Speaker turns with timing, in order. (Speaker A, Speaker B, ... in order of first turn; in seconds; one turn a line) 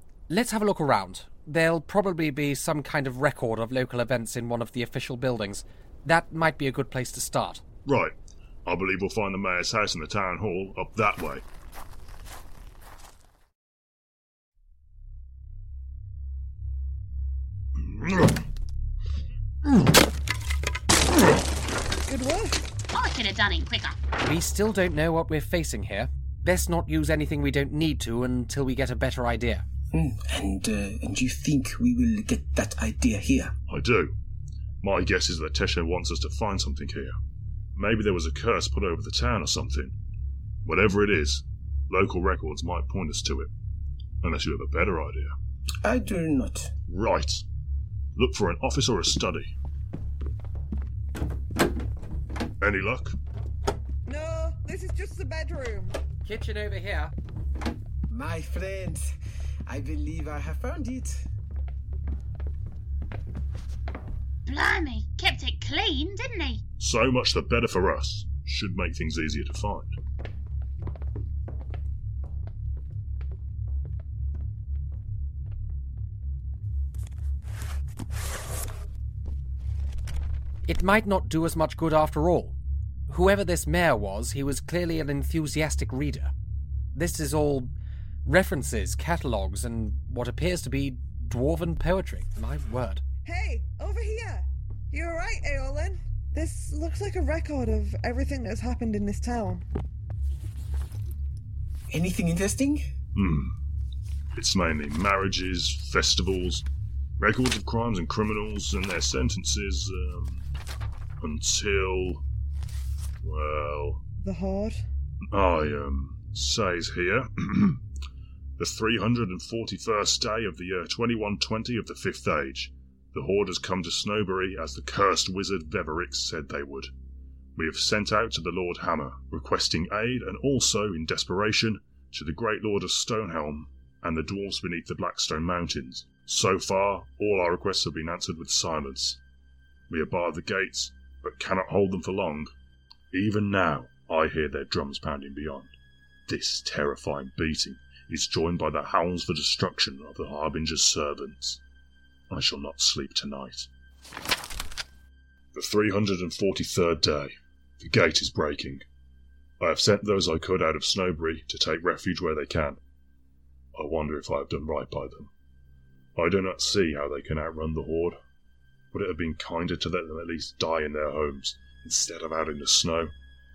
Speaker A: 0.3-7.6
Speaker B: 7.8-8.1
Speaker B: 8.6-11.4
Speaker B: 17.8-18.4
Speaker C: 22.1-22.7
Speaker D: 22.9-24.0
Speaker A: 24.2-29.6
Speaker E: 29.9-33.5
Speaker B: 33.7-34.1
Speaker B: 34.8-37.1
Speaker B: 37.7-39.9
Speaker B: 40.6-43.5
Speaker B: 44.2-45.3
Speaker E: 45.8-46.7
Speaker B: 46.9-47.4
Speaker B: 48.1-49.5
Speaker B: 52.6-53.1
Speaker C: 54.0-55.9
Speaker A: 56.2-57.1
Speaker E: 58.1-59.1
Speaker E: 59.7-61.3
Speaker D: 64.5-66.6
Speaker B: 66.8-69.9
Speaker A: 80.7-82.5
Speaker A: 83.1-86.3
Speaker A: 86.9-87.7
Speaker A: 88.2-93.0
Speaker C: 93.2-99.6
Speaker E: 101.9-102.8
Speaker B: 103.1-103.5
Speaker B: 104.3-106.6
Speaker B: 107.2-110.5
Speaker B: 111.2-112.2
Speaker B: 113.2-114.0
Speaker C: 114.2-114.8
Speaker B: 115.3-117.8
Speaker B: 118.6-126.9
Speaker B: 127.5-139.2
Speaker B: 139.9-142.5
Speaker B: 143.1-145.7
Speaker B: 146.3-151.6
Speaker B: 152.3-153.7
Speaker B: 155.5-158.8
Speaker B: 159.6-162.8
Speaker B: 163.7-165.3
Speaker B: 166.2-168.2
Speaker B: 168.9-173.1